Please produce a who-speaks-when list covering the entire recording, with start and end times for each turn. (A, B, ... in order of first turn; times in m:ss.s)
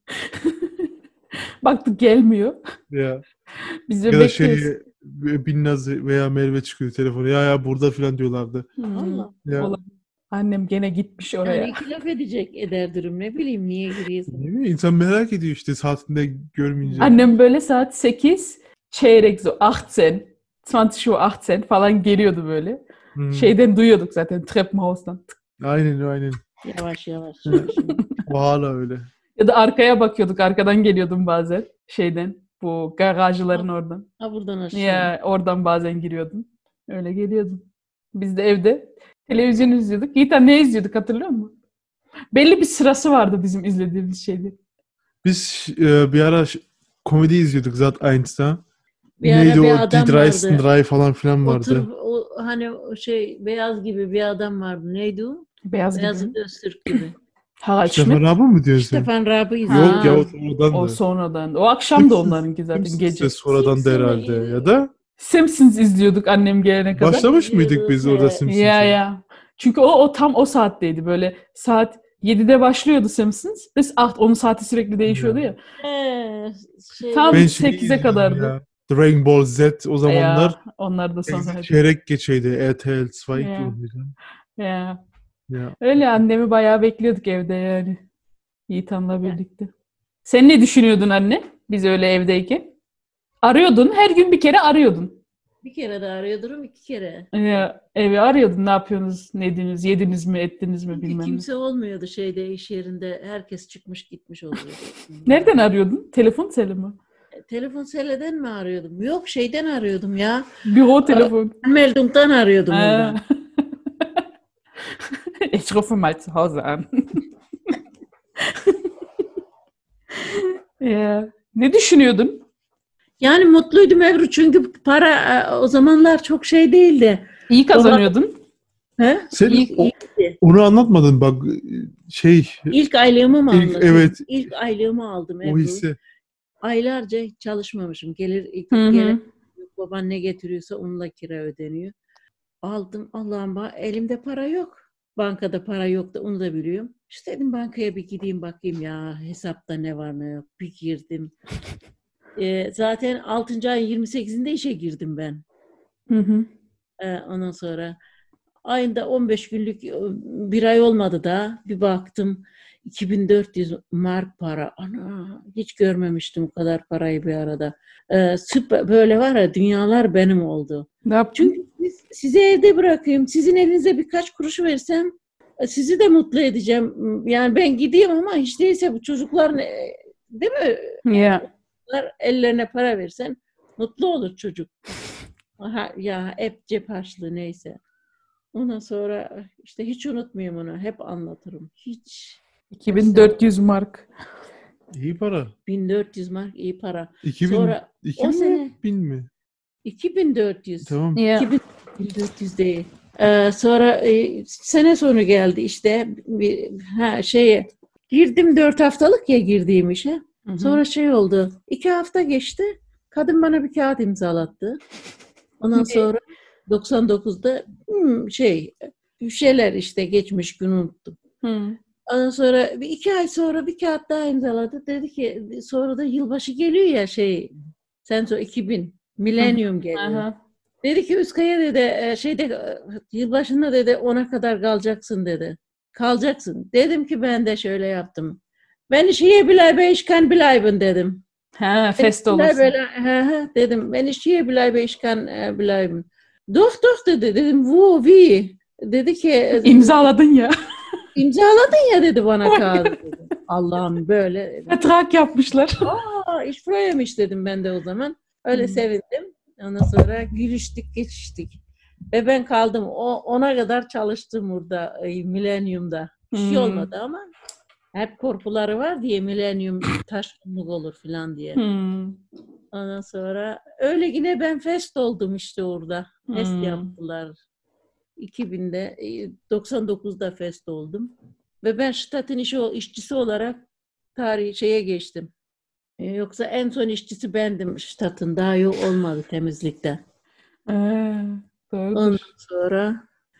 0:00.1-0:00.9 A
0:01.6-0:02.6 A
0:02.9-0:03.2 B
0:03.9-0:04.7 A
0:04.1-0:08.7 B
0:08.8-0:11.8 A
0:08.9-0:09.3 C
0:09.4-0:09.7 B
0:11.4-0:14.4 C
0:14.3-0:17.2 B
0:16.8-0:17.1 C
0:17.0-0:22.8 A
0:23.2-0:23.5 B
0:23.3-0:25.4 A
0:25.6-0:26.4 B
0:26.6-0:28.0 C
0:27.5-0:29.1 B
0:27.8-0:28.2 A
0:29.4-0:34.1 A
0:34.2-0:35.1 C
0:34.7-0:41.5 A
0:42.3-0:44.5 A
0:45.2-0:48.6 B
0:49.2-0:50.6 C
0:49.2-0:51.9 B
0:51.4-0:57.1 C
0:55.6-0:56.4 A
0:57.6-0:58.2 A
0:57.8-0:59.1 B
0:58.8-1:00.3 C
0:59.7-1:03.3 A
0:59.7-1:01.0 B
1:02.0-1:04.9 B
1:03.5-1:04.7 C
1:05.2-1:07.2 A
1:06.9-1:09.0 B
1:07.1-1:08.4 C
1:08.4-1:15.6 A
1:15.1-1:15.4 B
1:15.8-1:17.5 C
1:17.1-1:18.5 A
1:17.3-1:20.6 B
1:20.0-1:21.8 A
1:21.3-1:24.1 B
1:23.3-1:23.8 A
1:24.6-1:25.0 A
1:25.5-1:25.8 B
1:25.8-1:28.0 A
1:28.7-1:29.7 A
1:30.2-1:32.7 A
1:33.4-1:35.2 A
1:35.6-1:37.3 C
1:37.3-1:41.4 A
1:40.9-1:45.6 C
1:45.2-1:47.0 A
1:47.5-1:50.5 C
1:50.6-1:51.5 A
1:51.1-1:53.2 C
1:52.7-1:54.1 A
1:55.4-1:57.7 A
1:58.4-1:58.8 A
2:00.1-2:02.4 A
2:03.2-2:08.1 C
2:07.5-2:08.3 A
2:09.0-2:10.4 C
2:09.3-2:12.7 B
2:12.7-2:15.8 C
2:13.5-2:14.2 B
2:15.4-2:16.0 B
2:16.6-2:21.9 C
2:18.7-2:19.2 A
2:22.6-2:31.3 C
2:32.4-2:35.4 C
2:36.1-2:36.5 A
2:37.0-2:38.0 C
2:38.6-3:04.9 C
2:51.0-2:51.5 A
3:01.0-3:01.4 A
3:05.6-3:07.8 C
3:08.5-3:13.5 C
3:12.7-3:14.0 A
3:14.9-3:15.5 B
3:15.6-3:18.7 C
3:17.2-3:19.3 B
3:19.8-3:34.8 C
3:20.8-3:21.2 B
3:21.1-3:21.5 A
3:30.4-3:30.8 A
3:35.6-3:41.2 C
3:35.7-3:36.1 A
3:41.4-3:41.8 A
3:42.1-3:47.5 C
3:48.0-3:50.2 C
3:49.4-3:50.3 A
3:50.8-4:01.2 C
4:01.6-4:02.7 A
4:02.0-4:10.0 C
4:09.6-4:10.5 A
4:11.2-4:14.9 C
4:12.4-4:13.0 A
4:14.7-4:15.8 A
4:15.8-4:21.6 C
4:18.5-4:18.8 A
4:22.1-4:27.3 C
4:26.3-4:26.9 A
4:27.9-4:31.6 C
4:31.6-4:32.2 A
4:32.7-4:37.4 C
4:36.3-4:36.9 A
4:38.2-4:43.6 C
4:44.1-4:45.3 C
4:46.0-4:50.0 C
4:50.7-4:52.2 A
4:51.9-4:53.0 C